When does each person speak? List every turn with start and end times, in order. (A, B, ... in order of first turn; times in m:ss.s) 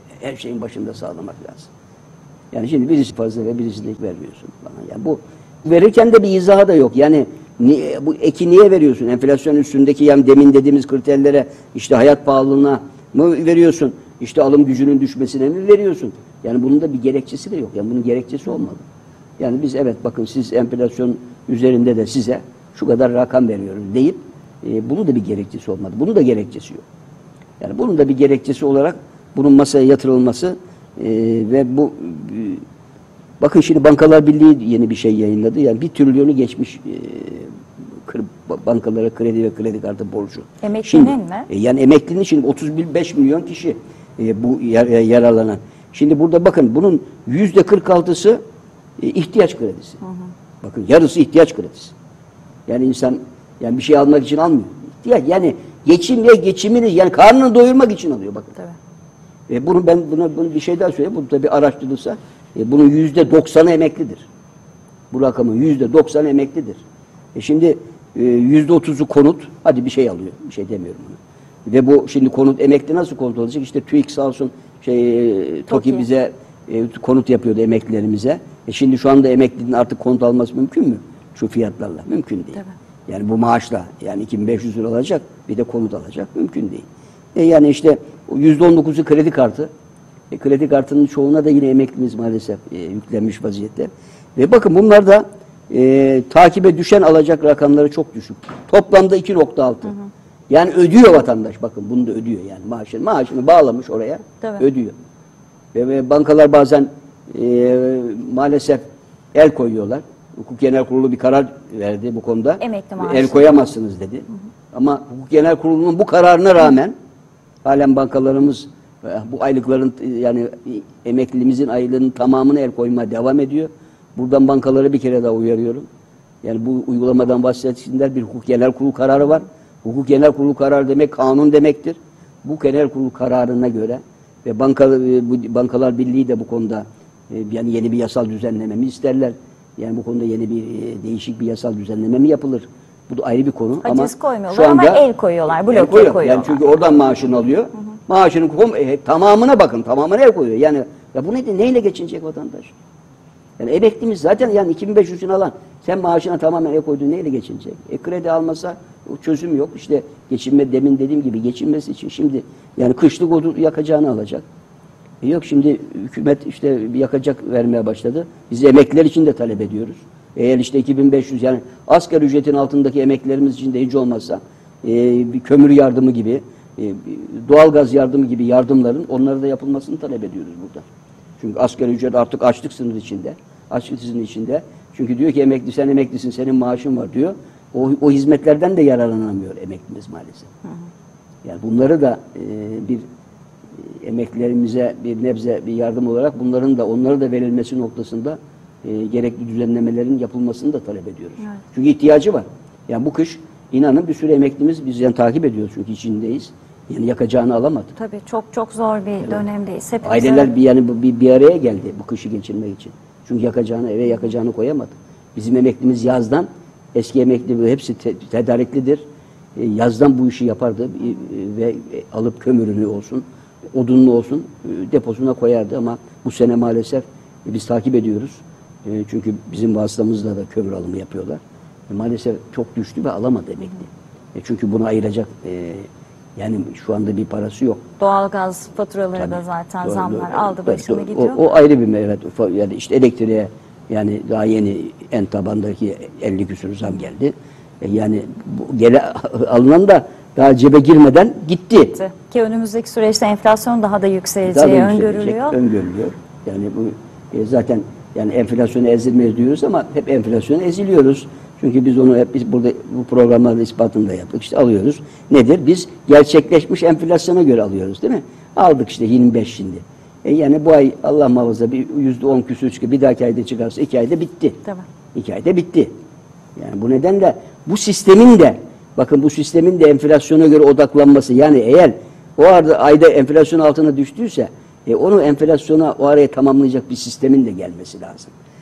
0:00.2-0:01.7 A
0:02.5-0:18.8 A
0:19.4-0:26.8 A
0:27.6-0:32.6 A
0:33.4-0:48.4 A
0:40.6-0:41.5 B
0:49.0-0:50.0 A
0:50.6-0:51.9 A
0:52.7-0:58.6 A
0:59.5-1:04.3 A
1:05.1-1:06.8 A
1:07.4-1:29.7 A
1:30.3-1:40.0 A
1:40.5-1:45.0 A
1:45.7-1:48.8 A
1:49.3-1:56.9 A
1:52.6-1:53.5 B
1:57.6-2:05.9 A
2:06.4-2:25.0 A
2:23.8-2:26.6 B
2:25.7-2:32.7 A
2:33.6-2:44.4 A
2:45.2-3:00.8 A
3:01.4-3:10.5 A
3:11.4-3:13.1 A
3:14.0-3:27.9 A
3:28.0-3:30.5 B
3:30.0-3:39.0 A
3:39.6-3:57.8 A
3:58.0-4:01.4 B
3:59.2-4:12.0 A
4:12.0-4:15.6 B
4:14.4-4:35.9 A
4:36.6-4:48.3 A